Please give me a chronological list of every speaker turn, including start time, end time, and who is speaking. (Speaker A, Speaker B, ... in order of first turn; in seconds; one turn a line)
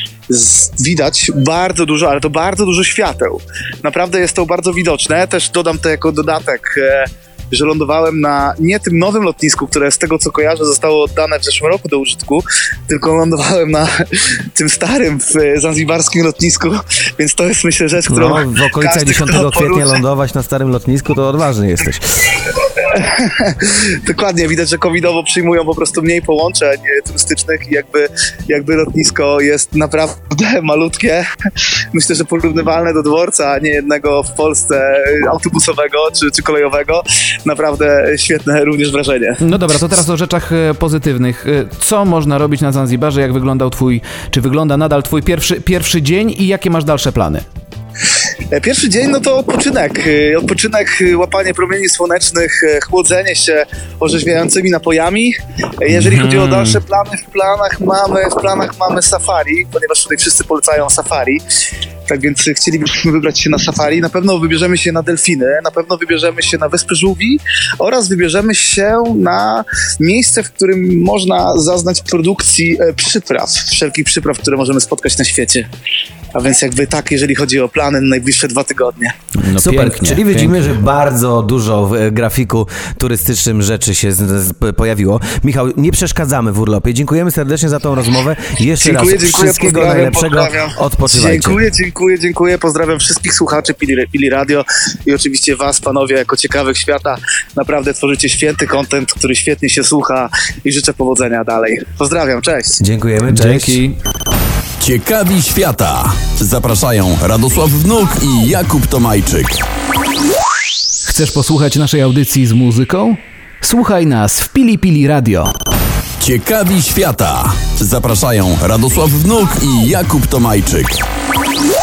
Speaker A: 0.3-19.9
Speaker B: 18.1-22.0
Speaker A: 22.8-31.2
Speaker A: 31.9-39.4
Speaker C: 39.4-47.4
Speaker A: 48.5-61.4
Speaker C: 55.9-56.8
Speaker A: 62.1-75.7
Speaker A: 76.3-79.1
Speaker C: 79.3-80.8
Speaker B: 79.5-91.6
Speaker A: 88.8-102.8
Speaker B: 102.8-103.8
Speaker C: 103.3-103.9
Speaker D: 104.8-109.6
Speaker C: 111.0-115.5
Speaker D: 116.2-121.0